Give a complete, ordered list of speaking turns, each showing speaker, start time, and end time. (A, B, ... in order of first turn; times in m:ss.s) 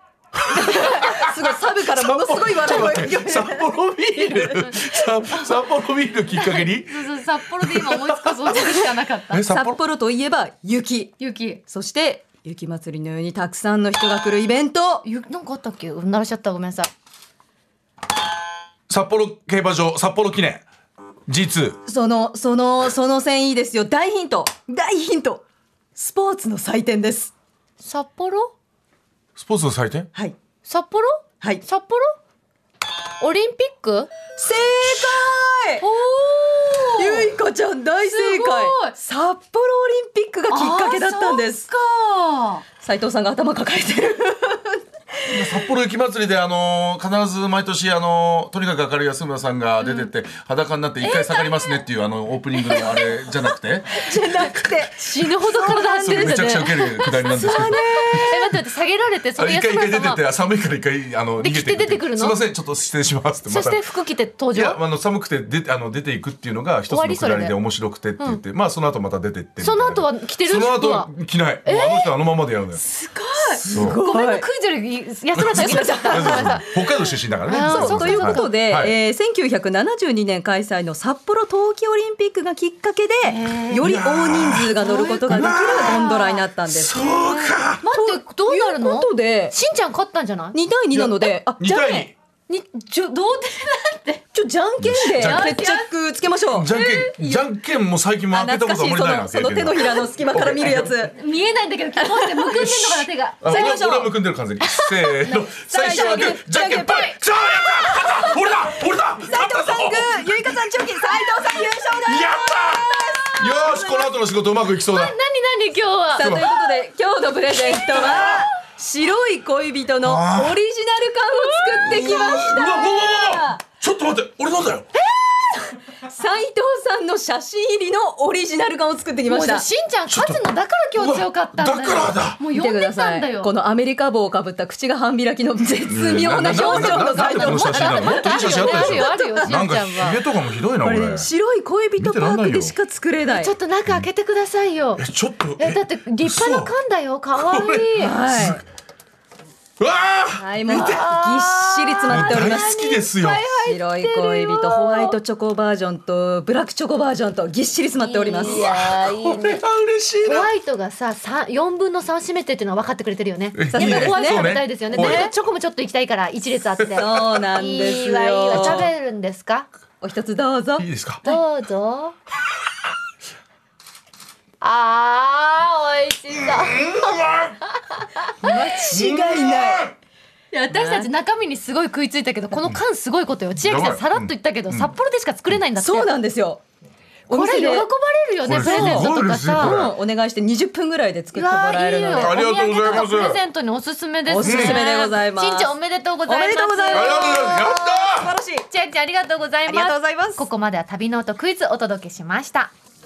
0:00.5-0:03.7 A
0:00.6-0:01.3 B
0:01.8-0:09.8 B
0:04.4-0:04.7 C
0:05.3-0:05.6 C
0:06.3-0:09.4 C
0:09.4-0:15.1 A
0:11.2-0:11.6 C
0:15.0-0:16.9 C
0:18.9-0:20.6 B
0:21.3-0:21.8 B
0:21.9-0:25.4 A
0:26.0-0:27.3 A
0:27.8-0:28.5 C
0:29.4-0:30.1 B
0:30.7-0:32.2 C
0:33.2-0:34.1 C
0:34.4-0:35.9 A
0:35.8-0:37.3 C
0:36.9-0:41.7 A
0:38.0-0:39.0 C
0:40.5-0:42.6 C
0:42.8-0:45.5 A
0:45.3-0:53.9 B
0:49.8-0:50.1 C
0:51.0-0:51.8 C
0:52.6-0:53.4 C
0:53.9-0:56.6 A
0:54.5-1:00.2 C
0:56.0-0:58.4 B
0:57.2-0:58.6 A
0:59.4-1:03.9 B
1:01.4-1:02.4 C
1:03.5-1:04.8 C
1:04.5-1:12.8 B
1:06.9-1:07.6 C
1:09.6-1:11.1 C
1:11.6-1:12.1 C
1:12.8-1:18.5 C
1:13.4-1:14.5 A
1:13.7-1:14.0 B
1:15.3-1:19.0 B
1:15.5-1:16.6 A
1:17.6-1:27.3 A
1:23.2-1:23.9 C
1:23.8-1:24.7 B
1:24.6-1:26.4 C
1:25.3-1:26.1 B
1:26.7-1:27.8 B
1:27.1-1:30.6 C
1:27.9-1:29.6 A
1:30.5-1:32.1 A
1:30.9-1:32.1 B
1:32.5-1:34.2 C
1:34.3-1:36.7 A
1:34.8-1:35.7 B
1:35.2-1:35.9 C
1:36.5-1:40.9 B
1:36.7-1:37.4 C
1:38.3-1:41.2 A
1:41.1-1:44.0 C
1:42.0-1:42.7 A
1:42.5-1:50.8 B
1:43.4-1:44.1 A
1:44.6-1:47.2 C
1:45.6-1:47.1 A
1:47.9-1:48.5 C
1:48.2-1:54.1 A
1:52.0-1:55.2 B
1:54.9-1:56.7 C
1:56.1-2:03.6 A
1:56.2-1:56.5 B
1:57.6-1:58.4 C
1:58.0-1:58.5 B
2:00.0-2:00.6 B
2:01.4-2:02.6 C
2:01.9-2:04.9 B
2:05.4-2:09.7 A
2:09.3-2:13.5 C
2:10.1-2:12.4 B
2:12.5-2:19.6 A
2:15.9-2:21.3 B
2:16.3-2:20.3 C
2:20.8-2:23.5 A
2:22.0-2:22.8 B
2:23.4-2:25.0 C
2:25.0-2:26.7 B
2:25.6-2:28.2 C
2:27.4-2:28.6 B
2:28.0-2:28.6 A
2:29.8-2:31.1 B
2:30.4-2:32.8 A
2:30.7-2:35.2 C
2:32.1-2:33.5 B
2:33.6-2:38.7 A
2:38.0-2:39.6 C
2:38.4-2:40.5 B
2:40.2-2:49.7 C
2:43.6-2:45.3 B
2:43.7-2:45.3 A
2:46.8-2:47.2 B
2:47.0-2:48.9 A
2:48.5-2:48.9 B
2:50.0-2:50.9 A
2:50.8-2:51.2 B
2:51.2-2:52.2 C
2:54.6-2:58.8 C
2:56.4-2:57.6 B
2:58.4-2:59.9 A
2:58.7-3:00.0 B
3:00.5-3:06.1 C
3:00.7-3:01.1 A
3:03.6-3:04.9 B
3:05.8-3:06.6 A
3:07.3-3:07.9 A
3:07.3-3:09.8 C
3:08.4-3:09.9 B
3:08.5-3:13.0 A
3:11.3-3:17.8 C
3:12.2-3:13.4 B
3:14.3-3:15.8 A
3:14.4-3:14.8 B
3:16.3-3:18.7 A
3:16.9-3:18.4 B
3:18.7-3:22.7 C
3:19.7-3:20.4 A